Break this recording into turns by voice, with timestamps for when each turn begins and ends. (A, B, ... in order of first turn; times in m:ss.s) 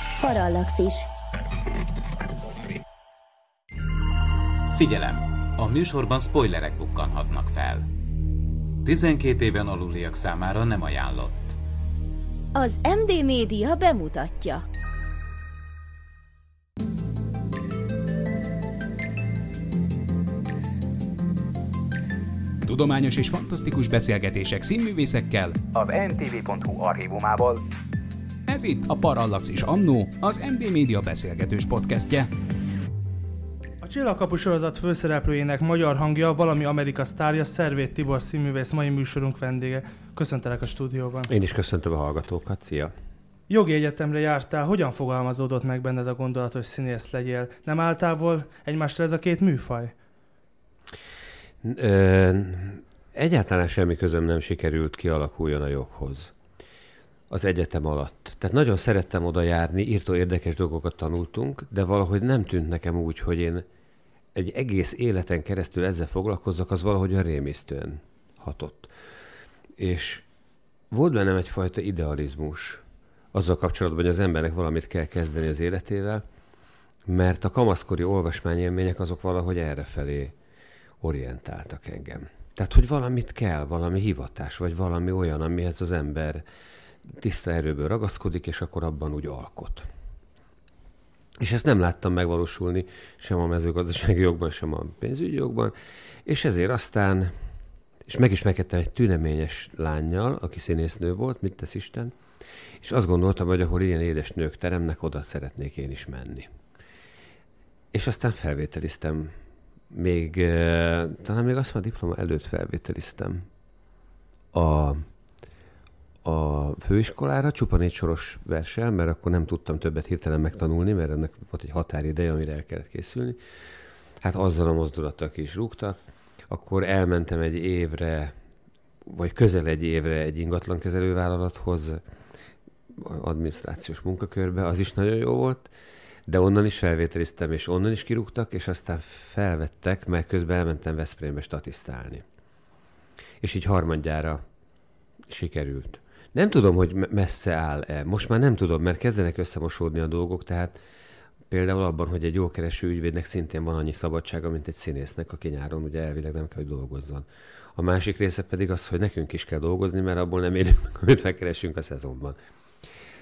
0:00.2-0:01.1 A
0:04.7-0:07.9 B
0:08.8-0:11.6 B
0:12.5-0:14.6 A
0:22.6-0:27.6 C
0:28.5-0:32.3 C
0:33.8-0:41.3 D
0:41.3-0:42.9 E
0:43.5-0:49.9 D
0:51.6-0:56.3 E
0:57.3-1:03.6 E
1:04.3-1:08.9 E
1:09.8-1:10.2 E
1:10.9-1:16.2 E
1:17.1-1:20.3 E
1:21.0-1:26.4 E
1:27.0-1:29.9 E
1:31.4-1:35.7 E
1:36.2-1:37.3 E
1:38.0-1:42.1 E
1:42.8-1:46.5 E
1:47.9-1:49.3 E
1:49.9-1:53.5 E
1:54.5-1:55.0 E
1:56.2-2:03.4 E
2:04.2-2:08.4 E
2:09.0-2:12.0 E
2:12.9-2:15.7 E
2:16.3-2:22.2 E
2:23.4-2:24.4 E
2:25.3-2:30.8 E
2:31.5-2:42.4 E